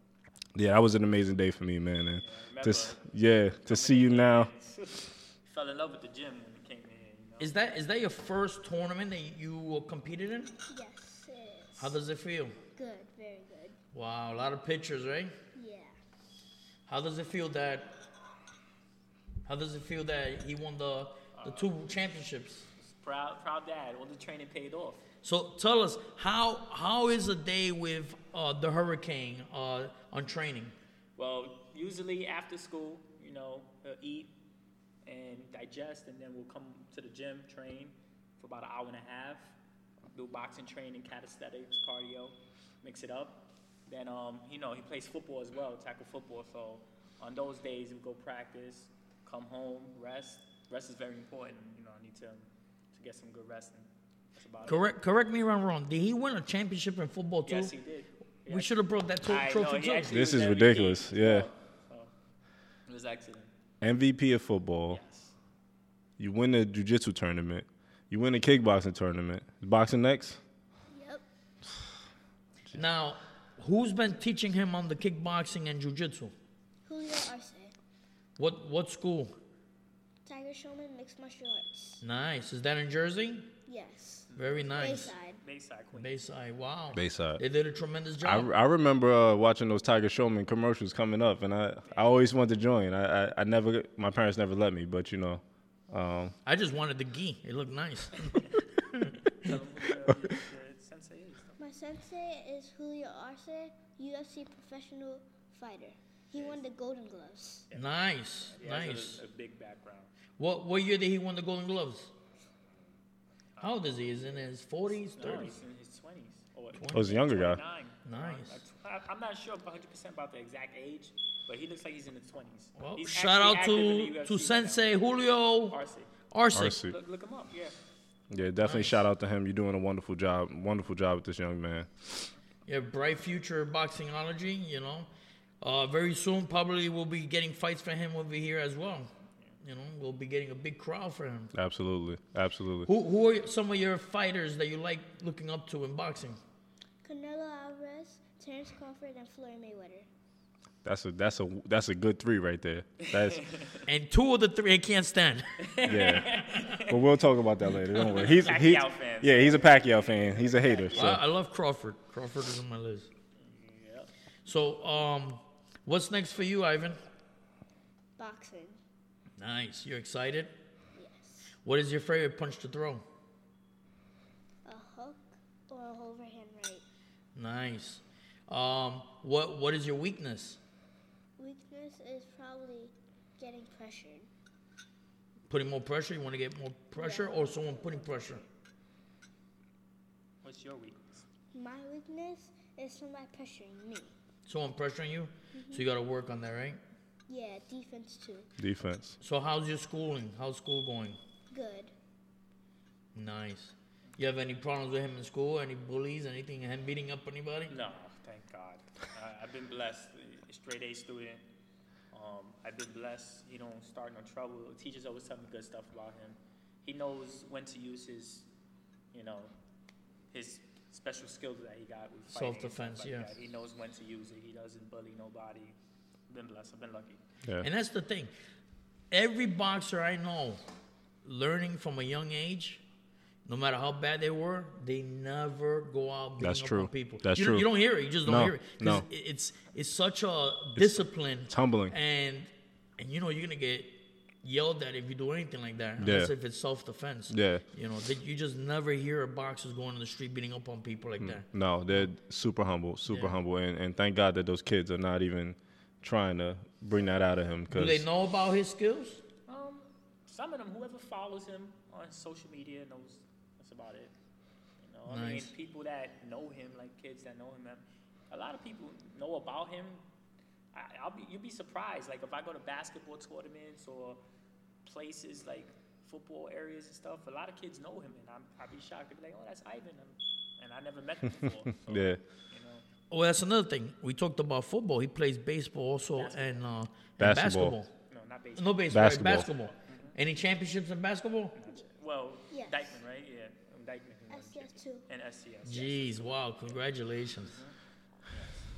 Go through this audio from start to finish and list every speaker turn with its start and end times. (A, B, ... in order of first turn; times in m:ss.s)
0:00.5-0:04.5 A
0:02.2-0:07.5 B
0:07.4-0:10.5 C
0:10.7-0:11.9 D
0:11.8-0:12.6 C
0:12.7-0:13.8 D
0:13.9-0:15.3 C
0:15.5-0:16.0 D
0:16.9-0:18.0 C
0:19.4-0:22.7 C
0:21.3-0:21.7 B
0:22.8-0:25.0 B
0:25.2-0:30.7 C
0:31.2-0:34.3 B
0:35.0-0:39.5 B
0:40.1-0:54.8 B
0:54.6-0:57.7 C
0:57.5-1:02.1 B
0:58.5-1:00.1 C
1:00.1-1:01.5 A
1:02.9-1:03.5 B
1:03.8-1:05.0 A
1:04.9-1:05.3 B
1:06.2-1:10.4 A
1:10.9-1:11.2 D
1:12.7-1:16.3 C
1:16.8-1:17.7 D
1:18.4-1:19.3 C
1:20.2-1:22.0 D
1:22.0-1:23.5 C
1:23.6-1:25.4 D
1:24.3-1:26.2 B
1:24.4-1:25.1 C
1:25.9-1:28.5 C
1:26.9-1:27.4 A
1:28.2-1:36.3 A
1:36.4-1:38.4 C
1:39.0-1:39.5 C
1:39.4-1:41.6 B
1:41.6-1:47.7 D
1:46.3-1:46.6 B
1:47.7-1:49.2 C
1:48.4-1:50.1 B
1:50.4-1:52.1 C
1:53.6-1:54.4 B
1:53.6-1:55.6 C
1:55.0-2:04.9 B
1:56.7-1:57.1 C
1:56.9-1:57.6 A
1:58.0-1:58.6 C
2:02.8-2:05.8 C
2:05.7-2:06.1 B
2:06.3-2:06.8 C
2:06.5-2:06.9 A
2:06.6-2:07.8 B
2:08.3-2:12.3 A
2:08.6-2:09.0 C
2:12.6-2:15.1 C
2:15.6-2:19.1 C
2:19.6-2:21.5 C
2:21.5-2:22.9 A
2:22.8-2:26.4 C
2:27.0-2:30.1 D
2:30.8-2:33.4 A
2:33.0-2:33.8 B
2:33.8-2:35.7 C
2:35.6-2:37.0 B
2:35.8-2:41.2 A
2:37.9-2:38.3 C
2:38.0-2:41.2 B
2:40.9-2:43.1 C
2:43.4-2:44.1 B
2:44.4-2:47.0 C
2:48.2-2:48.8 D
2:49.4-2:50.5 C
2:50.9-2:51.5 D
2:51.6-2:53.0 C
2:54.6-2:56.8 D
2:57.3-3:00.6 C
3:01.4-3:04.3 D
3:05.5-3:08.4 C
3:06.9-3:08.4 D
3:10.4-3:11.2 B
3:11.5-3:14.1 D
3:14.4-3:16.8 C
3:15.5-3:15.8 D
3:17.3-3:18.5 D
3:18.6-3:19.2 A
3:19.2-3:21.2 C
3:21.5-3:21.9 D
3:23.1-3:27.7 C
3:27.7-3:31.4 B
3:32.1-3:38.4 B
3:39.1-3:39.5 B
3:40.3-3:45.7 B
3:42.3-3:43.3 C
3:46.3-3:47.2 B
3:47.6-3:48.3 C
3:49.1-3:50.6 C
3:51.2-3:52.8 C
3:53.4-4:12.0 C
3:56.4-3:57.7 A
3:58.2-3:59.0 A
4:00.8-4:01.9 A
4:06.0-4:06.3 A
4:07.3-4:07.6 A
4:11.2-4:18.0 A
4:13.1-4:13.4 C
4:17.7-4:19.2 C
4:19.5-4:24.1 B
4:24.8-4:30.0 B
4:25.1-4:25.5 C
4:30.7-4:34.2 B
4:34.8-4:42.8 B
4:41.8-4:42.2 A
4:43.1-4:47.9 C
4:46.1-4:46.6 B
4:47.2-4:47.8 A
4:48.1-4:49.0 B
4:48.6-4:51.6 C
4:48.9-4:49.5 A
4:49.8-4:50.2 B
4:51.5-4:56.7 B
4:52.5-4:53.0 D
4:54.3-4:55.0 D
4:55.6-4:57.6 C
4:57.4-4:57.7 B
4:58.3-4:58.6 B